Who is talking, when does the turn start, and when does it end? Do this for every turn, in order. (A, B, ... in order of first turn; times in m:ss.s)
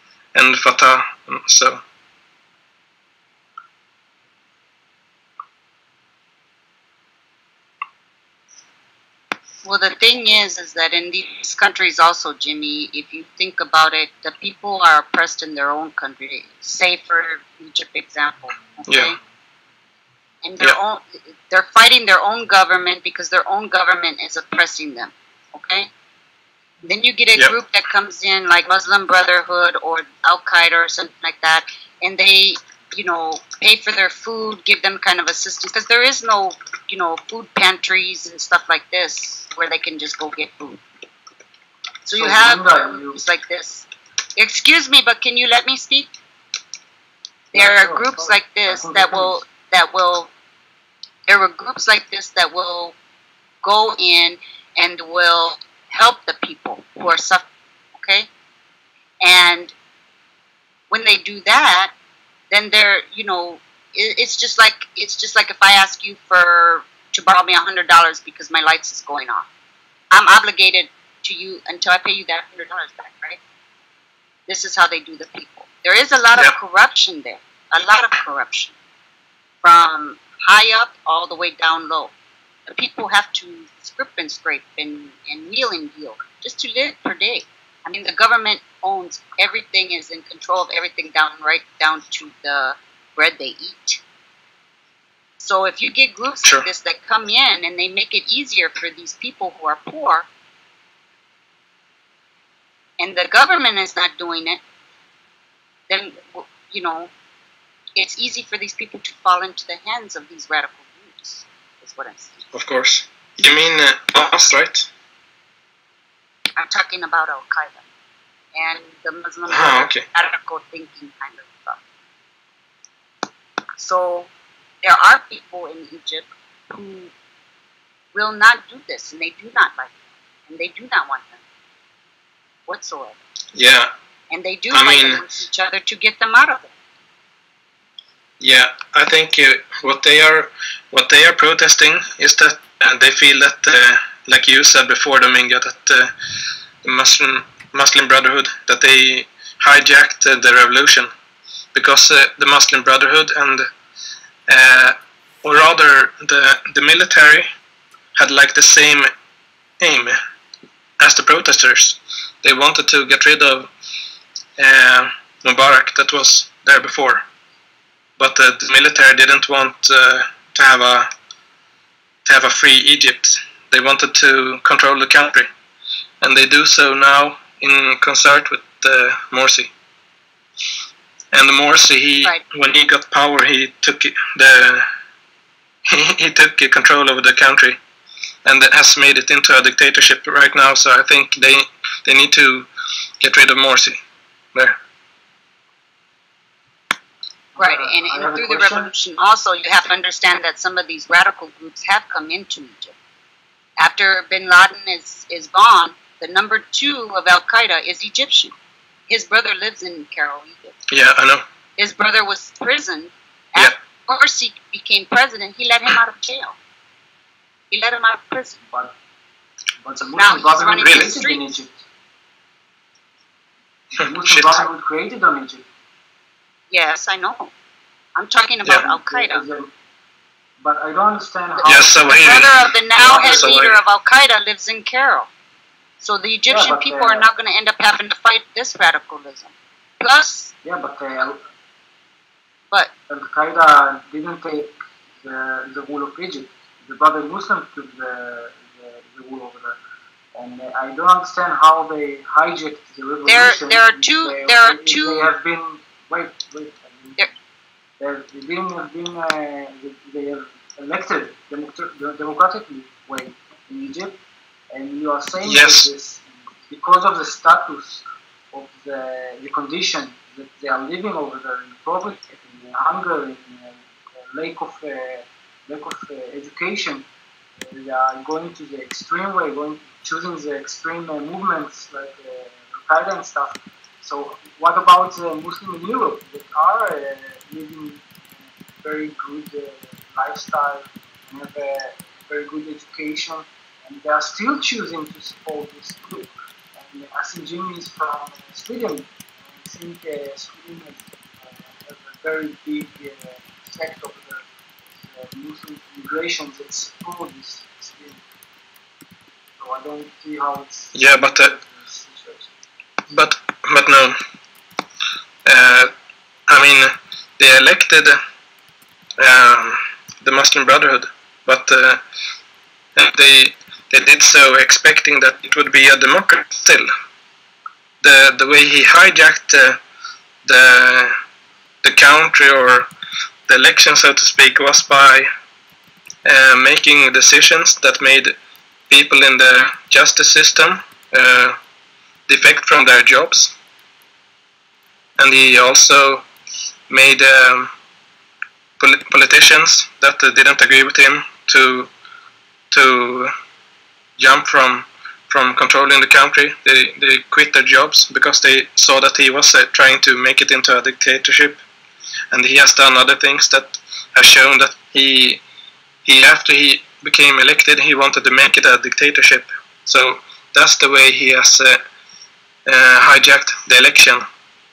0:00.3-0:01.8 A
0:09.6-0:19.2 B
0:18.9-0:19.1 A
0:20.4-0:25.9 B
0:26.8-0:40.8 B
0:42.0-0:46.1 B
0:42.1-0:43.2 C
0:47.5-0:49.4 C
0:47.5-0:50.3 B
0:51.3-0:52.9 B
0:53.6-0:57.4 B
0:58.0-0:58.3 B
0:59.2-0:59.7 B
1:00.9-1:01.9 B
1:02.5-1:09.5 B
1:10.1-1:13.4 B
1:14.5-1:18.8 B
1:19.6-1:22.1 B
1:22.7-1:34.0 B
1:35.4-1:40.3 B
1:43.0-1:44.6 B
1:45.9-1:47.1 B
1:48.0-1:52.4 B
1:52.5-1:54.9 A
1:56.6-1:57.8 B
1:58.5-2:01.8 B
1:59.5-2:00.0 A
2:03.8-2:04.3 B
2:04.8-2:07.1 B
2:08.1-2:10.0 B
2:10.5-2:11.4 B
2:12.7-2:13.2 B
2:13.5-2:13.9 A
2:14.3-2:16.7 B
2:14.7-2:15.2 A
2:18.4-2:26.1 A
2:26.8-2:31.1 A
2:31.7-2:33.7 A
2:34.5-2:37.5 A
2:38.2-2:39.1 A
2:39.8-2:40.2 A
2:41.0-2:43.7 A
2:44.6-2:47.2 A
2:48.2-2:51.1 A
2:52.2-2:55.5 A
2:56.2-2:59.7 A
3:01.3-3:04.9 A
3:05.9-3:07.8 A
3:08.4-3:12.7 A
3:13.2-3:14.0 A
3:17.5-3:18.9 C
3:17.6-3:22.9 B
3:23.8-3:28.5 B
3:29.1-3:30.8 B
3:30.9-3:31.4 A
3:31.8-3:36.6 B
3:37.7-3:38.6 B
3:39.8-3:41.8 C
3:40.2-3:41.6 B
3:43.9-3:45.7 C
3:44.0-3:44.6 A
3:46.7-3:47.5 B
3:48.2-3:49.4 B
3:48.7-3:49.7 C
3:50.6-3:52.2 C
3:51.6-3:55.3 B
3:51.6-3:53.8 A
3:53.0-3:53.6 C
3:56.0-4:00.5 B
3:56.5-3:57.2 C
4:00.6-4:01.4 C
4:03.1-4:09.8 C
4:10.3-4:17.3 C
4:13.2-4:15.3 B
4:18.0-4:24.2 C
4:24.7-4:37.1 C
4:25.4-4:25.9 A
4:37.6-4:48.1 C
4:48.8-5:08.2 C
5:09.6-5:12.5 C
5:10.9-5:11.6 A
5:13.1-5:14.2 A
5:15.4-5:15.9 A
5:16.5-5:18.2 A
5:19.2-5:22.0 A
5:23.0-5:26.9 A
5:28.0-5:29.8 A
5:30.4-5:31.2 A
5:31.8-5:32.9 A
5:33.5-5:35.3 A
5:36.2-5:38.3 A
5:38.9-5:41.6 A
5:42.3-5:43.5 A
5:45.2-5:46.2 A
5:46.9-5:47.7 A
5:48.8-5:51.9 A
5:52.7-5:53.3 A
5:54.2-6:01.6 A
6:02.3-6:05.4 A
6:06.0-6:11.8 A
6:12.6-6:14.3 A